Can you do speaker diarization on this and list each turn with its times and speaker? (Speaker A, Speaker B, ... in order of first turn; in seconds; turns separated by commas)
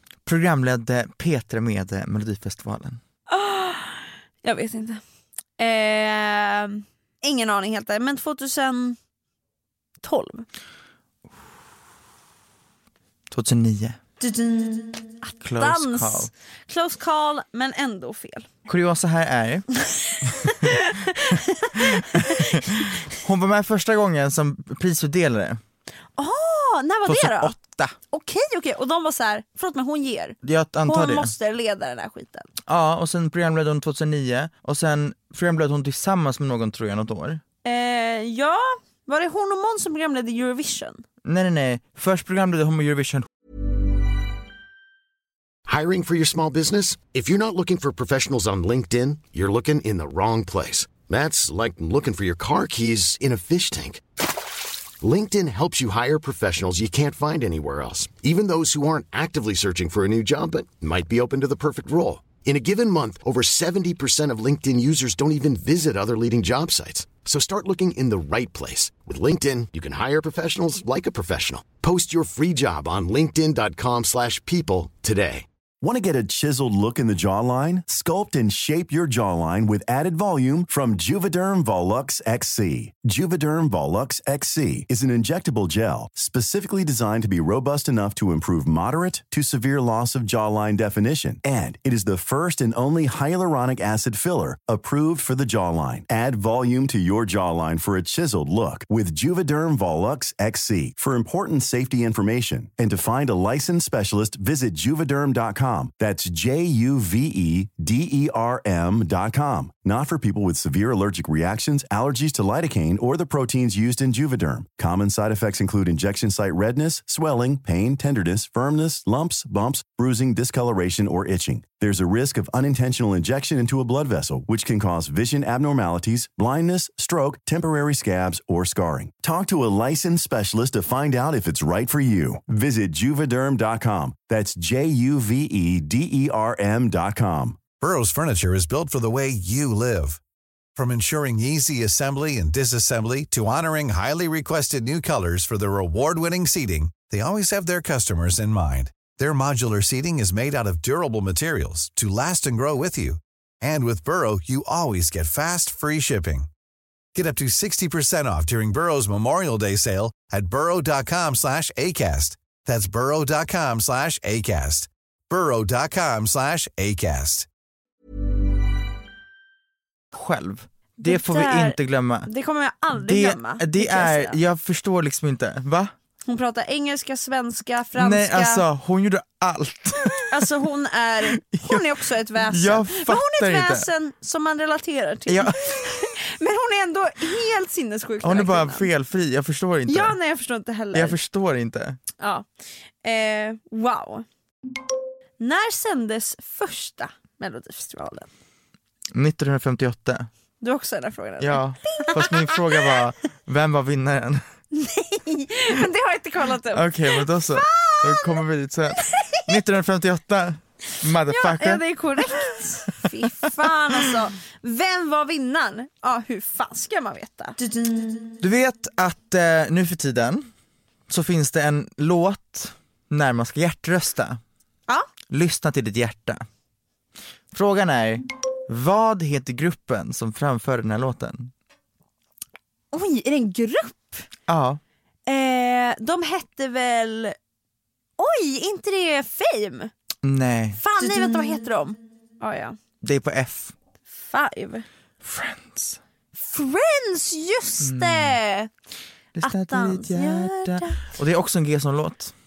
Speaker A: 0.2-3.0, Speaker B: 3.3-5.0, Speaker B: 5.6-9.0, Speaker B: 10.0-10.5, Speaker A: 13.3-14.0, Speaker B: 14.2-18.5, Speaker A: 15.4-16.3, Speaker A: 18.7-19.7, Speaker B: 20.1-22.9, Speaker A: 21.8-25.6, Speaker B: 26.2-27.6, Speaker A: 27.1-27.9, Speaker B: 28.1-32.5, Speaker A: 30.4-31.3, Speaker A: 32.7-37.4, Speaker B: 37.6-41.0, Speaker A: 41.2-43.3, Speaker C: 45.7-54.0, Speaker C: 55.0-75.5, Speaker D: 75.8-137.7, Speaker E: 137.8-140.2, Speaker E: 140.8-156.5, Speaker E: 157.2-167.5, Speaker A: 170.1-172.3, Speaker B: 171.0-174.4, Speaker A: 172.9-175.9, Speaker B: 176.2-178.7, Speaker A: 178.0-180.5, Speaker B: 180.3-188.9, Speaker A: 181.3-183.9, Speaker A: 185.3-186.1, Speaker A: 188.2-190.2, Speaker B: 189.9-191.2, Speaker A: 190.9-192.0, Speaker B: 192.2-192.5, Speaker B: 193.0-194.3, Speaker B: 195.4-198.3, Speaker A: 199.1-200.3, Speaker B: 200.6-202.9, Speaker A: 201.4-204.4, Speaker B: 204.7-208.4, Speaker A: 206.7-211.8, Speaker B: 209.0-209.5, Speaker B: 211.2-217.6, Speaker A: 218.4-220.5, Speaker A: 221.1-224.4, Speaker A: 225.3-226.4, Speaker A: 227.5-231.5, Speaker B: 232.9-234.3, Speaker A: 234.5-234.8, Speaker B: 235.3-237.4, Speaker B: 238.2-239.9, Speaker A: 240.2-241.2, Speaker B: 240.8-242.8, Speaker A: 243.0-243.8, Speaker B: 244.1-244.9, Speaker A: 245.2-246.0, Speaker B: 246.3-248.7, Speaker A: 247.8-248.4, Speaker A: 249.3-252.3, Speaker B: 249.4-251.0